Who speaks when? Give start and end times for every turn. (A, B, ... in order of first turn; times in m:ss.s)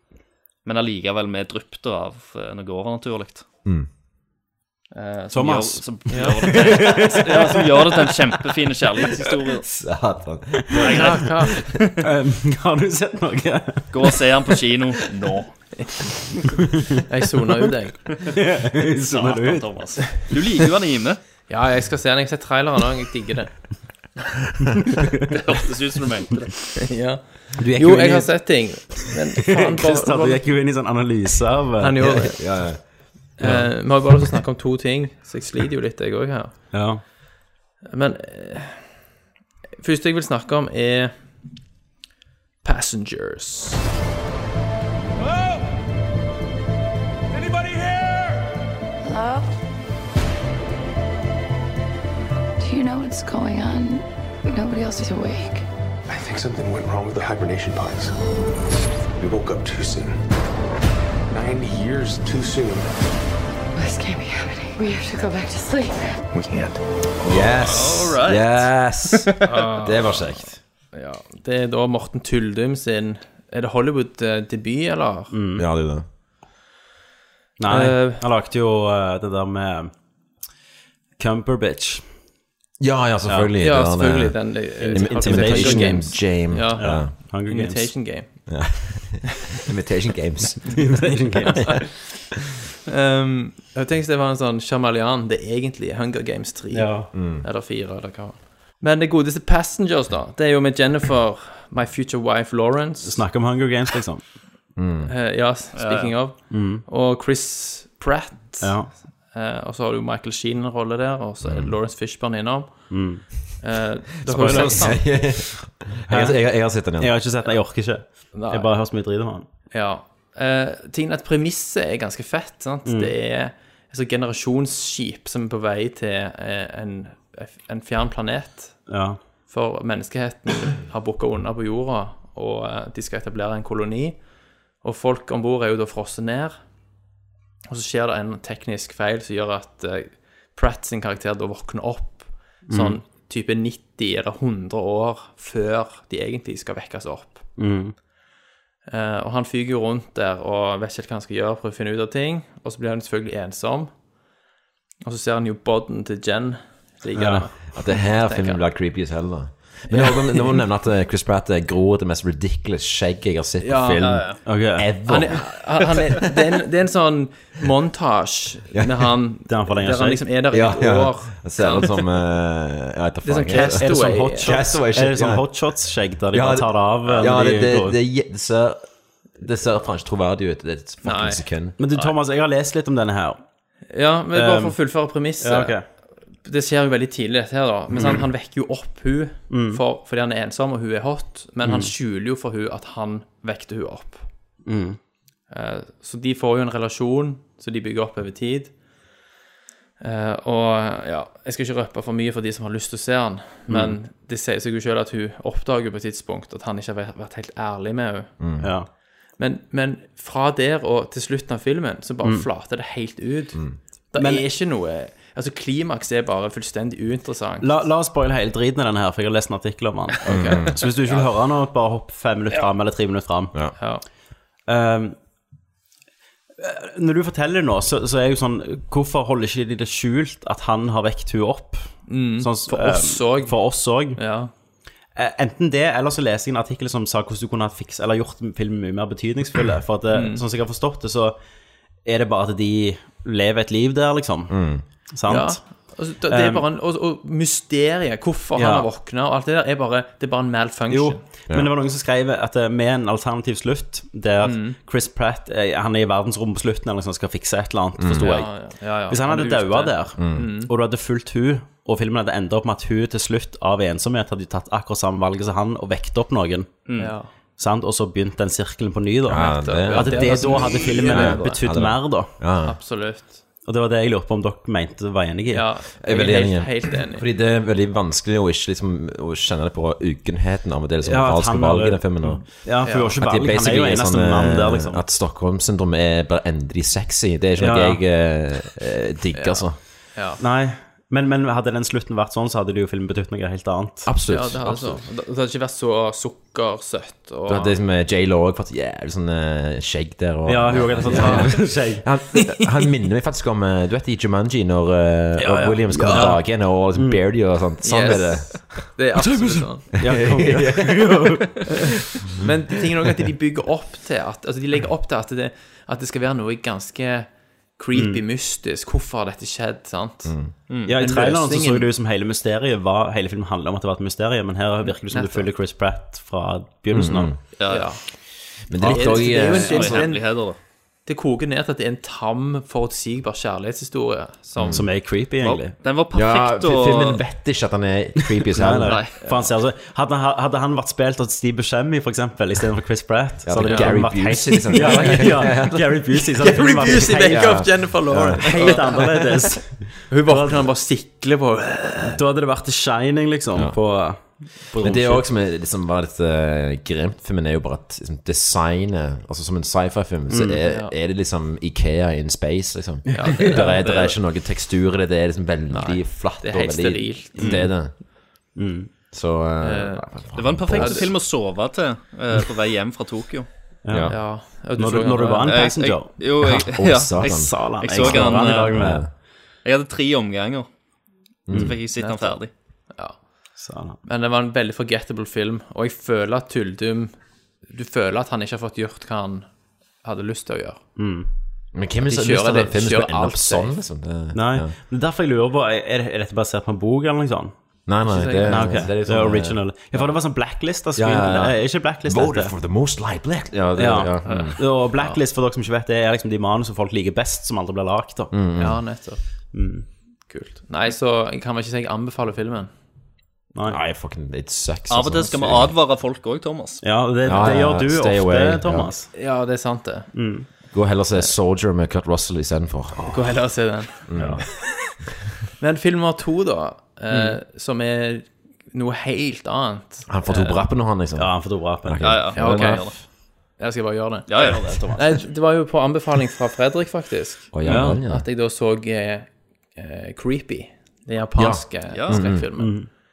0:00.6-0:03.5 A
0:04.9-0:09.7 A
0:05.3-0:07.6 B
0:06.1-0:06.4 C
0:09.1-0:11.0 D
0:10.7-0:11.7 A
0:10.8-0:11.5 C
0:12.0-0:14.2 B
0:13.9-0:15.5 A
0:17.1-0:18.2 C
0:18.3-0:19.6 B
0:19.1-0:21.2 A
0:21.5-0:24.0 C
0:25.3-0:26.8 A
0:26.9-0:30.5 C
0:27.6-0:32.6 B
0:31.8-0:36.7 C
0:32.3-0:34.3 D
0:36.7-0:37.0 B
0:37.8-0:39.0 C
0:39.8-0:41.6 C
0:42.6-0:43.8 C
0:49.0-0:49.5 E
0:52.6-0:55.6 E
0:56.1-0:58.2 F
0:59.2-1:00.2 F
1:01.3-1:03.0 F
1:03.7-1:06.2 E
1:06.3-1:07.6 F
1:07.2-1:10.6 D
1:07.6-1:09.1 A
1:09.4-1:15.3 C
1:15.3-1:15.6 B
1:15.6-1:16.0 D
1:17.6-1:19.9 B
1:17.7-1:18.2 A
1:21.2-1:22.1 B
1:22.8-1:27.1 D
1:23.2-1:23.5 B
1:23.6-1:29.0 C
1:24.8-1:27.9 B
1:28.5-1:31.3 D
1:30.8-1:31.8 B
1:31.1-1:32.3 C
1:32.9-1:43.2 C
1:36.7-1:37.1 B
1:37.1-1:37.4 D
1:43.0-1:44.3 B
1:44.8-1:45.1 D
1:45.0-1:55.3 C
1:45.7-1:46.2 A
1:46.5-1:46.8 B
1:48.6-1:48.9 B
1:51.4-1:51.7 D
1:52.9-1:53.3 B
1:54.3-1:55.2 B
1:54.3-1:57.1 D
1:56.1-1:59.5 B
1:58.3-1:58.7 C
1:59.7-2:16.8 C
2:02.8-2:03.1 B
2:08.9-2:09.2 B
2:17.7-2:27.6 C
2:22.7-2:23.0 B
2:27.6-2:27.9 B
2:28.8-2:34.0 C
2:35.0-2:38.7 C
2:37.1-2:37.5 B
2:37.7-2:45.9 D
2:43.6-2:44.5 C
2:44.0-2:44.4 A
2:44.4-2:44.9 B
2:45.0-2:51.8 C
2:48.7-2:49.4 D
2:49.5-2:50.2 B
2:50.5-2:55.5 D
2:51.6-2:51.9 A
2:53.2-2:54.7 C
2:53.5-2:58.0 B
2:56.3-3:01.8 D
3:01.0-3:01.4 C
3:01.8-3:03.4 B
3:03.9-3:14.3 C
3:04.3-3:04.8 B
3:05.4-3:05.8 B
3:07.9-3:08.2 D
3:09.5-3:09.8 B
3:11.6-3:11.9 B
3:14.6-3:15.0 B
3:15.5-3:18.8 C
3:20.0-3:28.6 C
3:23.7-3:24.0 B
3:28.4-3:28.7 D
3:28.6-3:28.9 B
3:29.3-3:37.9 C
3:34.1-3:34.4 B
3:37.6-3:43.9 B
3:40.2-3:41.3 C
3:40.3-3:40.8 D
3:43.8-3:44.0 C
3:44.6-3:45.2 B
3:46.6-3:54.3 B
3:52.1-3:54.5 C
3:55.1-4:01.4 B
4:00.1-4:00.4 C
4:02.0-4:06.6 B
4:04.5-4:04.8 D
4:05.3-4:11.2 C
4:08.5-4:08.9 B
4:10.9-4:26.8 B
4:14.4-4:14.8 C
4:18.0-4:18.5 D
4:18.1-4:20.7 C
4:20.2-4:20.5 D
4:26.8-4:27.1 A
4:27.0-4:27.3 C
4:27.6-4:32.3 B
4:29.3-4:32.8 D
4:29.4-4:31.8 C
4:32.6-4:33.4 C
4:33.6-4:35.6 B
4:35.5-4:37.2 C
4:36.0-4:49.8 D
4:41.0-4:45.0 B
4:42.3-4:43.2 C
4:47.6-4:48.0 B
4:49.3-4:50.4 C
4:50.4-4:55.0 B
4:54.0-4:54.6 D
4:54.3-4:57.7 C
4:57.4-5:09.0 D
5:00.4-5:02.0 B
5:01.0-5:02.0 C
5:05.4-5:07.2 B
5:07.8-5:10.0 C
5:09.9-5:11.4 B
5:10.0-5:11.4 D
5:12.4-5:21.9 C
5:17.9-5:18.2 B
5:20.2-5:20.5 D
5:20.7-5:20.9 A
5:20.8-5:27.3 B
5:24.8-5:25.5 C
5:26.9-5:30.4 D
5:27.6-5:27.9 A
5:27.6-5:34.7 C
5:29.2-5:30.6 A
5:34.5-5:37.2 A
5:34.6-5:34.9 D
5:34.7-5:35.7 B
5:36.1-5:39.5 D
5:38.5-5:50.7 B
5:38.8-5:39.1 A
5:39.2-5:39.5 C
5:43.4-5:48.9 D
5:43.6-5:45.5 C
5:46.4-5:52.2 C
5:52.2-5:55.3 B
5:53.5-6:08.0 D
6:00.3-6:00.6 B
6:00.6-6:00.9 C
6:03.1-6:04.2 C
6:05.7-6:07.7 C
6:07.3-6:07.8 B
6:08.5-6:08.9 B
6:09.1-6:11.2 D
6:09.6-6:11.1 C
6:10.3-6:13.6 A
6:13.8-6:16.1 B
6:13.9-6:14.2 D
6:14.1-6:15.7 C
6:15.5-6:20.7 A
6:16.2-6:19.1 D
6:17.2-6:19.0 B
6:21.5-6:21.8 D
6:21.5-6:22.5 A
6:22.0-6:31.0 C
6:23.6-6:24.0 B
6:31.0-6:31.3 B
6:31.7-6:34.7 D
6:32.0-6:33.8 C
6:34.3-6:37.9 B
6:37.8-6:39.7 D
6:38.0-6:38.9 C
6:38.4-6:42.5 B
6:41.0-6:44.6 D
6:43.8-6:48.3 B
6:44.3-6:45.2 C
6:48.3-6:49.0 D
6:48.6-6:52.7 C
6:49.5-6:49.9 B
6:53.5-6:53.8 B
6:53.7-6:55.8 D
6:54.9-6:56.8 A
6:56.8-6:59.1 B
6:57.2-6:58.9 D
6:59.1-7:00.6 C
7:00.1-7:00.5 B
7:00.7-7:03.4 D
7:03.0-7:04.4 C
7:04.1-7:04.8 D
7:04.1-7:04.4 B
7:05.6-7:10.7 C
7:07.1-7:07.4 A
7:10.1-7:13.0 D
7:11.1-7:12.2 B
7:12.0-7:12.9 A
7:12.4-7:23.0 C
7:14.3-7:14.8 A
7:14.4-7:15.1 B
7:17.5-7:18.2 D
7:17.6-7:18.0 B
7:21.4-7:22.7 D
7:21.9-7:22.2 A
7:22.6-7:22.9 B